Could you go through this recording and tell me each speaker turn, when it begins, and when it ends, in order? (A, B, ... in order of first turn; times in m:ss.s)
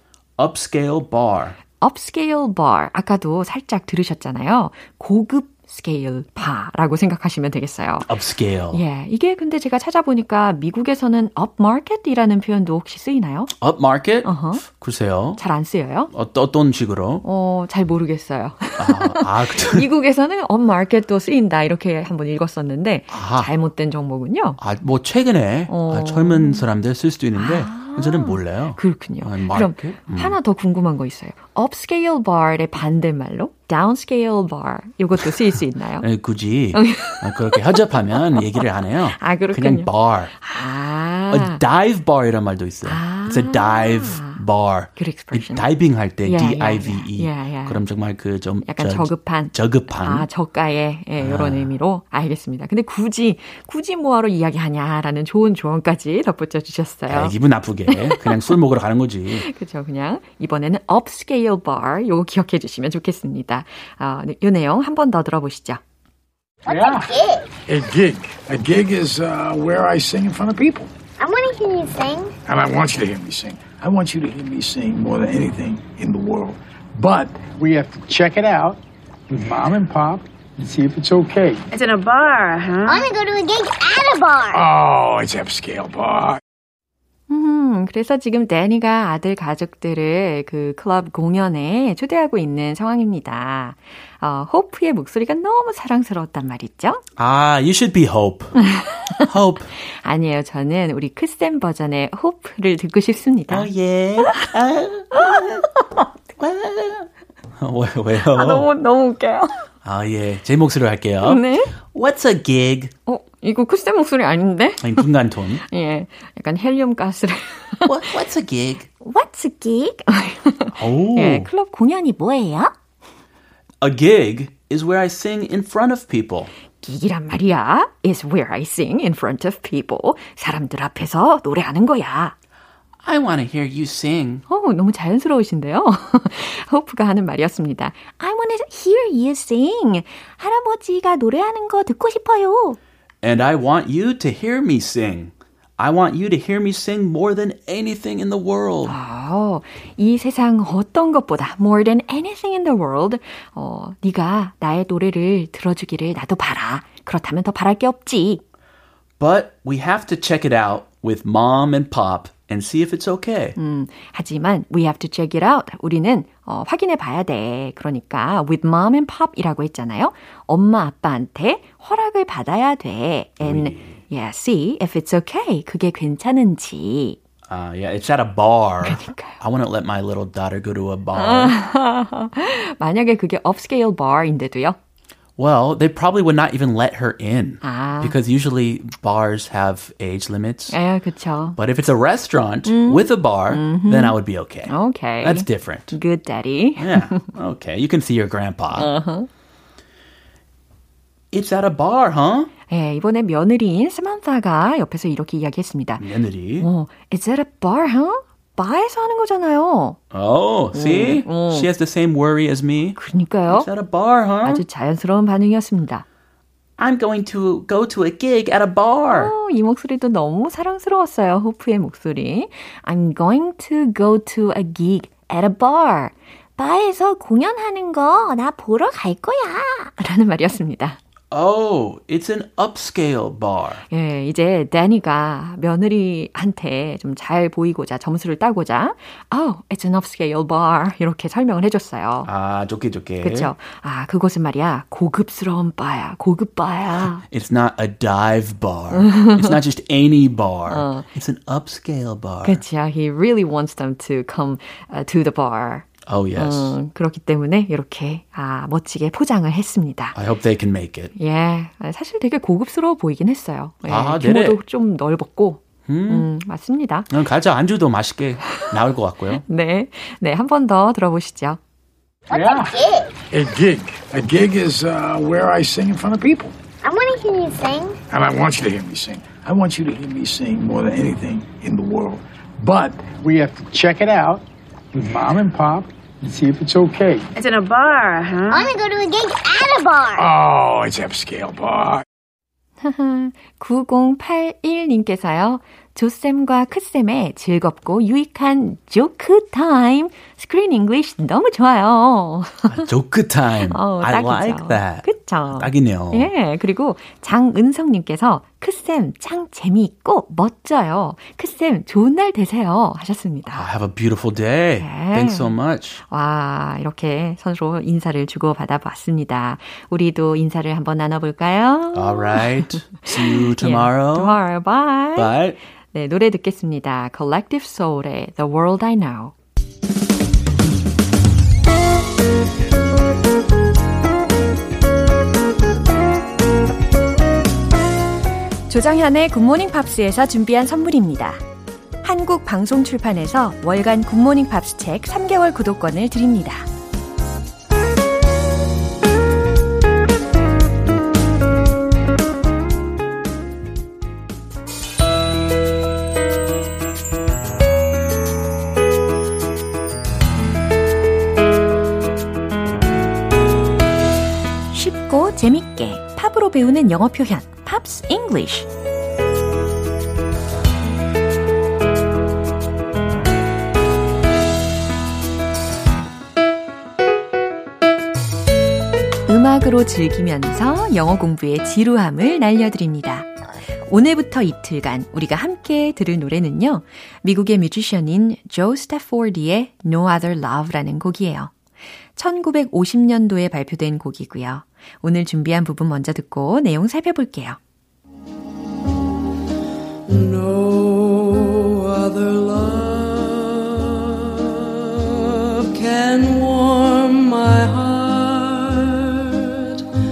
0:00.4-0:01.6 A
0:01.8-0:08.1 B
0:08.0-0:08.8 A
0:08.7-0:13.5 B
0:13.6-0:15.4 A
0:14.2-0:14.6 B
0:15.4-0:16.1 B
0:16.1-0:17.2 A
0:17.2-0:24.6 B
0:18.8-0:19.9 A
0:23.1-0:23.5 A
0:24.6-0:30.4 A
0:25.7-0:26.7 B
0:27.4-0:36.1 B
0:36.0-0:40.3 A
0:36.7-0:37.7 B
0:38.4-0:41.6 B
0:41.3-0:50.3 A
0:42.8-0:44.4 B
0:45.0-0:45.7 B
0:46.2-0:47.8 B
0:48.6-0:57.3 B
0:51.2-0:51.7 A
0:57.1-0:59.5 A
0:57.9-0:58.6 B
0:59.3-1:05.8 B
1:06.7-1:07.5 C
1:06.7-1:07.1 D
1:07.7-1:10.9 D
1:11.2-1:12.4 C
1:12.5-1:18.8 D
1:19.3-1:21.6 D
1:21.7-1:23.1 E
1:22.9-1:24.6 C
1:24.5-1:26.4 D
1:27.3-1:37.0 B
1:37.2-1:38.6 A
1:38.6-1:39.3 B
1:39.2-1:39.7 A
1:39.9-1:43.7 B
1:43.5-1:45.7 A
1:44.2-1:44.5 B
1:45.1-1:45.5 B
1:46.3-1:48.7 A
1:48.3-1:49.6 B
1:49.8-1:52.9 A
1:51.2-1:51.8 B
1:53.1-1:55.1 B
1:54.8-1:55.6 A
1:55.6-1:58.2 B
1:57.9-1:58.9 A
1:59.0-2:02.7 B
2:00.8-2:01.5 A
2:03.8-2:06.5 A
2:06.8-2:12.4 B
2:13.0-2:14.4 A
2:14.5-2:22.8 B
2:23.2-2:29.0 A
2:28.9-2:38.4 B
2:39.2-2:43.6 A
2:43.6-2:57.2 B
2:53.4-2:54.0 A
2:57.5-3:01.6 A
2:58.8-2:59.4 B
3:01.2-3:04.8 B
3:05.4-3:10.8 A
3:07.6-3:08.2 B
3:10.7-3:11.6 B
3:11.6-3:16.0 A
3:12.7-3:17.3 B
3:16.8-3:18.9 A
3:18.7-3:19.3 B
3:21.3-3:22.5 A
3:22.7-3:26.0 B
3:26.0-3:26.7 A
3:26.6-3:30.0 B
3:30.1-3:34.6 A
3:30.7-3:31.7 B
3:33.0-3:33.7 B
3:34.4-3:36.0 B
3:36.8-3:39.3 A
3:39.1-3:51.0 B
3:51.3-3:53.8 A
3:53.9-4:02.3 B
4:02.2-4:03.5 A
4:03.2-4:07.2 B
4:07.3-4:12.6 A
4:08.9-4:09.6 B
4:10.7-4:11.1 B
4:12.4-4:20.2 B
4:16.1-4:16.8 A
4:20.2-4:21.1 A
4:21.2-4:27.1 B
4:23.8-4:24.6 A
4:25.9-4:26.3 A
4:27.1-4:29.4 A
4:28.5-4:28.7 B
4:29.3-4:31.6 B
4:32.3-4:33.2 C
4:32.3-4:32.7 D
4:33.3-4:36.6 D
4:36.8-4:38.0 C
4:38.1-4:44.4 D
4:44.9-4:47.2 D
4:47.4-4:48.7 E
4:48.5-4:50.3 C
4:50.2-4:52.0 D
4:52.8-5:02.8 B
5:02.7-5:06.3 A
5:03.7-5:13.7 B
5:13.5-5:16.0 A
5:14.8-5:15.5 B
5:16.1-5:25.4 B
5:21.9-5:24.4 A
5:25.2-5:25.6 A
5:25.9-5:29.3 B
5:38.7-5:41.4 B
5:42.0-5:46.7 B
6:04.7-6:08.7 B
6:19.3-6:23.3 B
6:23.9-6:31.5 B
6:32.2-6:37.6 B
6:40.1-6:49.8 F